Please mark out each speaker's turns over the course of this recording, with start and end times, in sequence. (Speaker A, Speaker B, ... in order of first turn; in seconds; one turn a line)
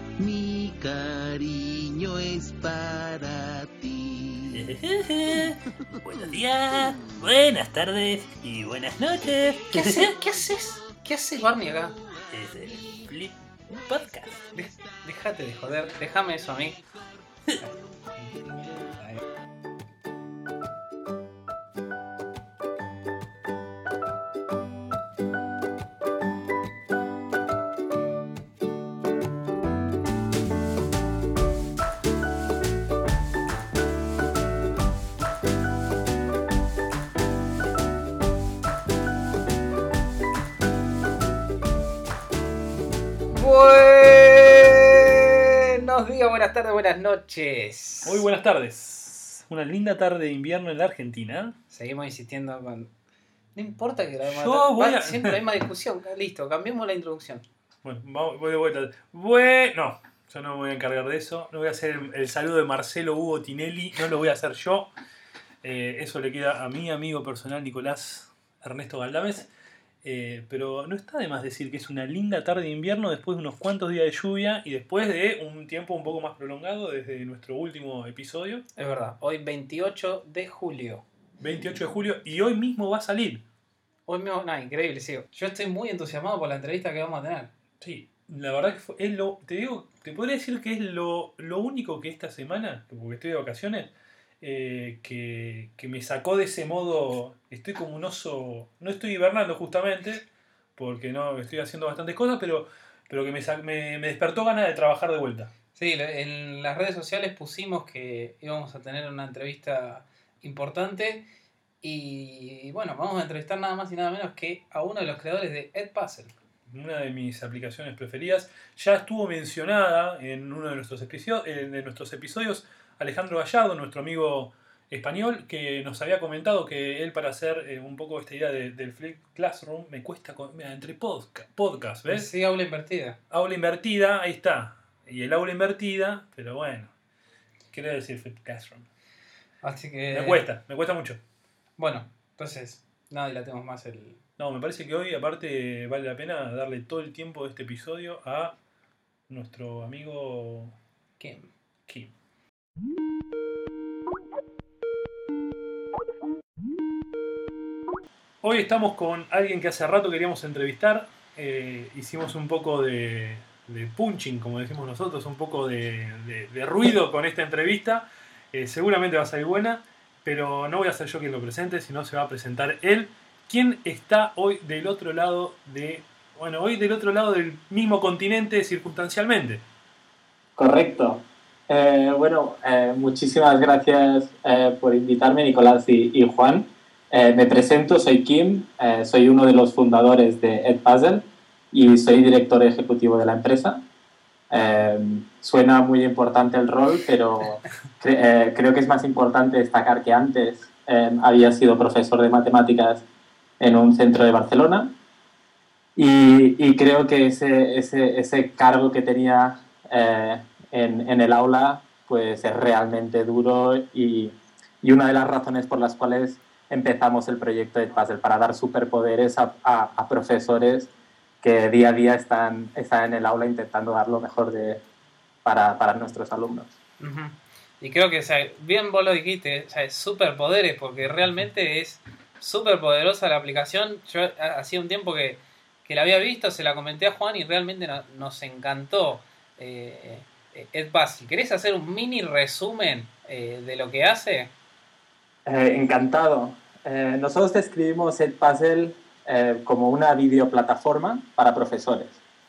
Speaker A: 0.2-4.8
Speaker B: 4.5-10.2
Speaker A: 5.3-7.5
Speaker A: 8.3-19.1
Speaker C: 9.7-12.0
Speaker B: 12.3-13.4
Speaker B: 13.9-14.4
Speaker C: 14.5-16.8
Speaker C: 17.6-18.3
Speaker C: 43.3-48.2
Speaker D: 48.0-51.6
Speaker C: 51.7-52.9
Speaker C: 53.5-57.5
Speaker D: 54.2-55.4
Speaker D: 57.8-64.9
Speaker D: 65.6-69.5
Speaker D: 70.0-78.6
Speaker C: 78.8-81.0
Speaker D: 81.4-83.4
Speaker C: 84.1-87.5
Speaker D: 87.8-105.5
Speaker C: 105.8-111.2
Speaker C: 111.8-116.3
Speaker D: 116.7-132.3
Speaker C: 132.1-133.2
Speaker D: 133.3-136.9
Speaker D: 137.7-138.9
Speaker C: 139.6-140.4
Speaker D: 140.1-141.2
Speaker C: 141.8-144.2
Speaker D: 144.4-148.6
Speaker D: 149.3-150.8
Speaker C: 151.2-151.5
Speaker D: 158.4-179.6
Speaker E: 180.6-193.8
Speaker E: 194.5-203.1
Speaker E: 203.6-204.9
Speaker E: 206.0-220.9
Speaker E: 221.4-224.8
Speaker E: 225.4-226.7
Speaker C: 227.0-244.5
Speaker E: 245.5-252.2